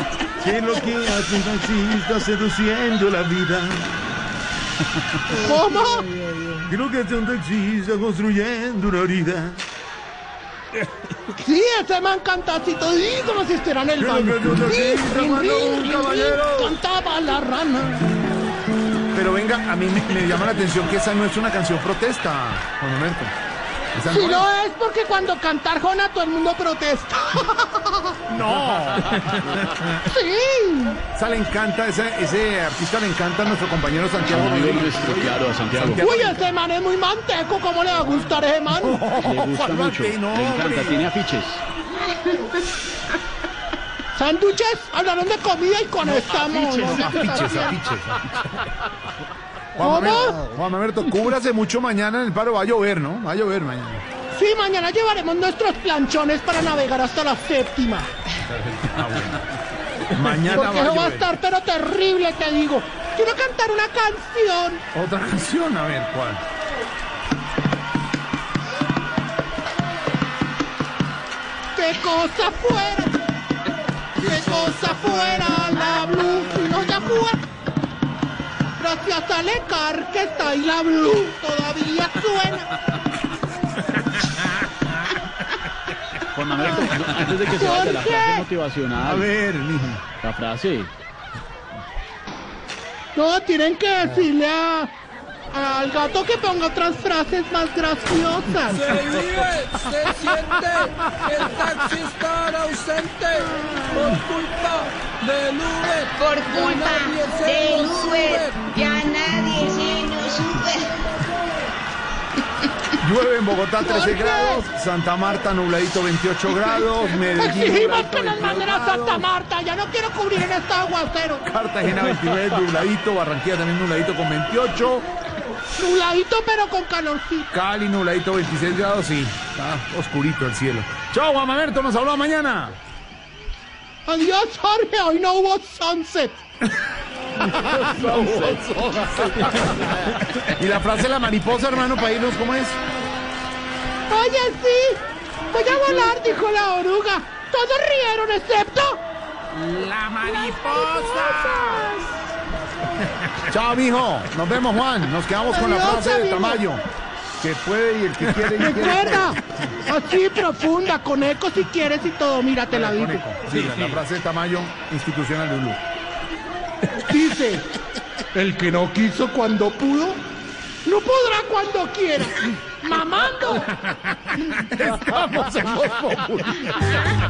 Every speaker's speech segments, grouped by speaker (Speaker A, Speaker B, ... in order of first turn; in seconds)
Speaker A: 0.2-4.0, 6.6-9.6, 14.0-16.8, 19.1-23.3, 23.9-24.5, 28.3-29.5, 31.1-36.5, 38.7-41.1, 46.6-48.4, 49.8-54.0, 58.5-59.5, 60.1-61.3, 64.9-66.4, 89.0-90.0, 113.0-119.2, 121.4-125.1, 127.5-132.8, 137.7-142.8, 153.4-156.8, 157.4-159.4, 162.7-165.8, 174.4-176.9
Speaker B: 5.3-6.6, 11.4-18.1, 24.1-28.2, 30.0-31.0, 36.0-39.1, 44.1-47.7, 49.8-50.4, 54.3-58.1, 60.5-64.8, 71.7-73.2, 74.2-77.4, 78.8-82.7, 87.5-88.5, 93.2-94.9, 95.5-98.9, 113.8-114.6, 117.3-121.4, 125.8-127.5, 134.1-136.4, 137.5-137.9, 144.1-149.0, 150.2-152.1, 155.5-156.6, 158.5-163.3, 167.0-167.7, 168.3-170.2, 170.8-173.9
Speaker C: 34.4-36.0, 39.1-41.6, 86.3-89.2, 90.2-90.9, 98.7-100.3, 103.2-108.4, 149.8-150.1
Speaker D: 98.9-105.6, 106.6-108.5
Speaker E: 106.1-110.9